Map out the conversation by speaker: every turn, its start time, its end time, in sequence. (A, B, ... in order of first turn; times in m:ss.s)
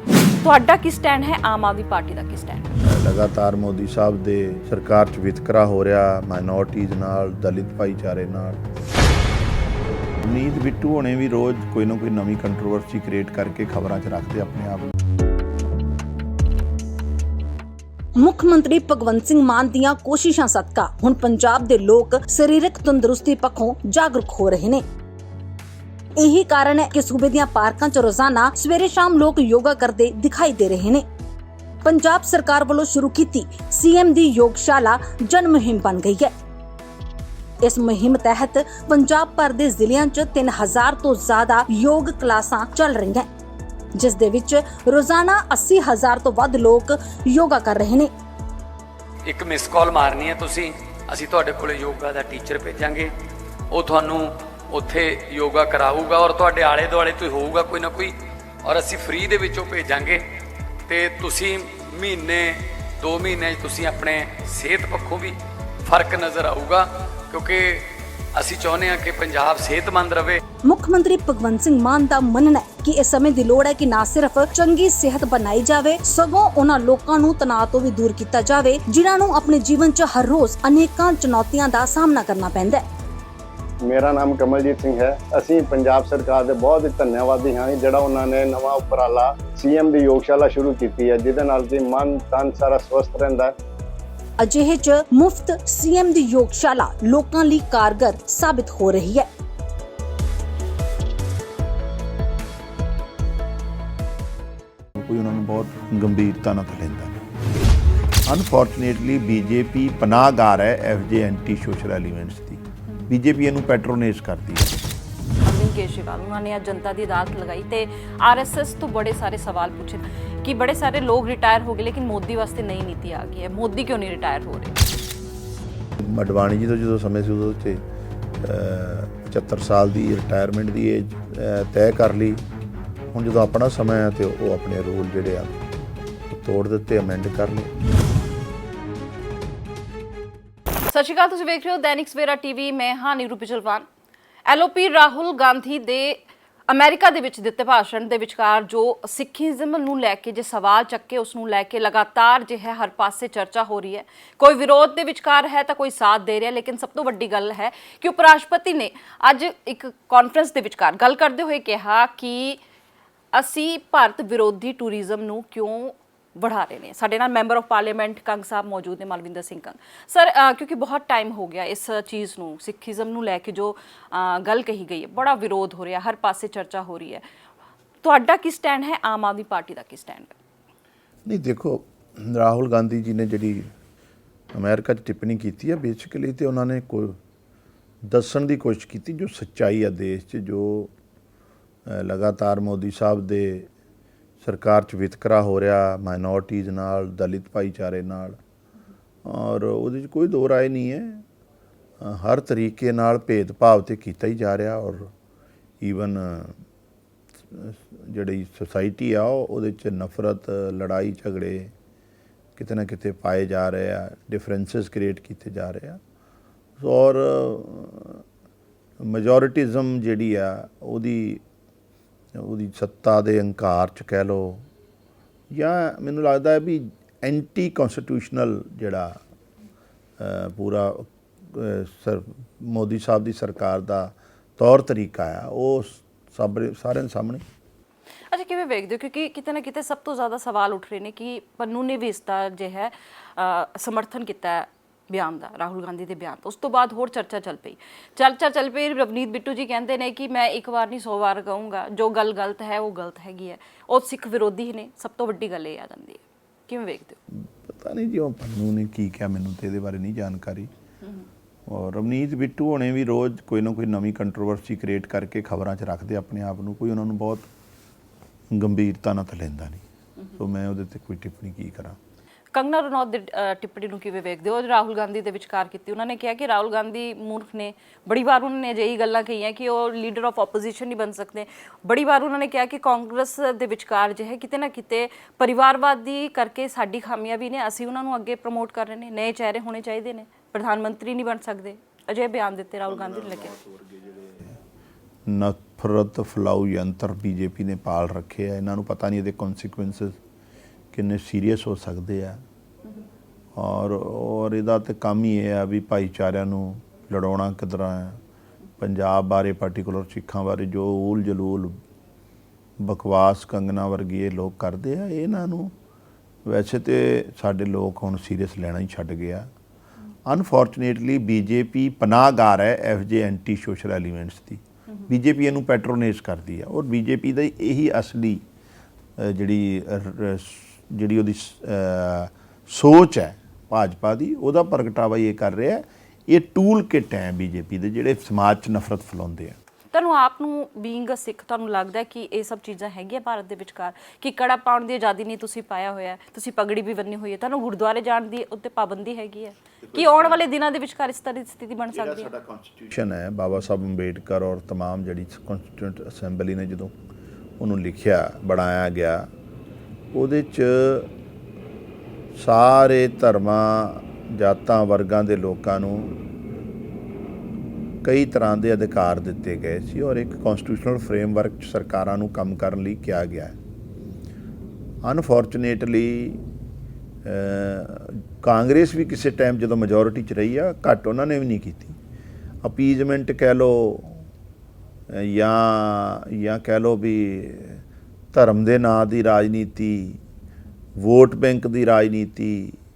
0:00.4-0:02.7 A
0:02.8-0:08.6 B
0:10.2-0:14.9 B
0:18.2-0:24.8 C
0:26.2-0:31.0 C
0:31.8-0:36.3 C
0:37.6-0:43.3 C
0:44.0-0:48.1 C
0:49.2-0:53.2 D
0:53.7-1:00.2 D
1:00.9-1:10.4 D
1:10.7-1:22.8 C
1:23.9-1:33.5 E
1:34.4-1:39.3 C
1:45.0-1:47.2 B
1:48.2-1:54.8 B
1:55.4-2:04.8 A
2:06.0-2:07.8 B
2:08.4-2:12.4 B
2:13.1-2:15.7 B
2:16.3-2:17.7 B
2:20.9-2:23.8 A
2:24.5-2:42.6 A
2:43.3-2:57.2 A
2:58.0-3:00.4 A
3:01.2-3:03.7 B
3:04.5-3:07.2 B
3:08.0-3:10.9 B
3:11.8-3:13.7 B
3:14.4-3:18.4 B
3:19.2-3:21.2 B
3:22.0-3:25.1 B
3:25.8-3:26.6 B
3:27.5-3:31.7 B
3:32.6-3:36.0 B
3:36.8-3:38.2 B
3:39.0-3:41.4 B
3:42.3-3:44.7 B
3:45.5-3:49.2 B
3:50.2-3:57.4 B
3:58.3-4:17.2 A
4:17.3-4:20.7 B
4:21.7-4:27.5 B
4:28.5-4:29.8 B
4:30.4-4:32.0 B
4:32.5-4:53.6 A
4:52.9-4:54.6 B
4:55.2-5:00.2 B
5:00.9-5:02.4 B
5:03.6-5:08.2 B
5:08.8-5:11.8 B
5:12.8-5:15.7 B
5:16.4-5:19.5 B
5:20.2-5:28.4 B
5:29.2-5:39.6 B
5:39.9-5:52.3 A
5:49.8-5:50.4 B
5:51.9-5:56.9 B
5:57.6-5:59.3 B
6:00.1-6:01.1 B
6:02.4-6:06.2 B
6:08.0-6:13.6 B
6:15.0-6:16.4 B
6:17.2-6:22.0 B
6:22.6-6:24.3 B
6:25.1-6:30.2 B
6:31.0-6:32.8 B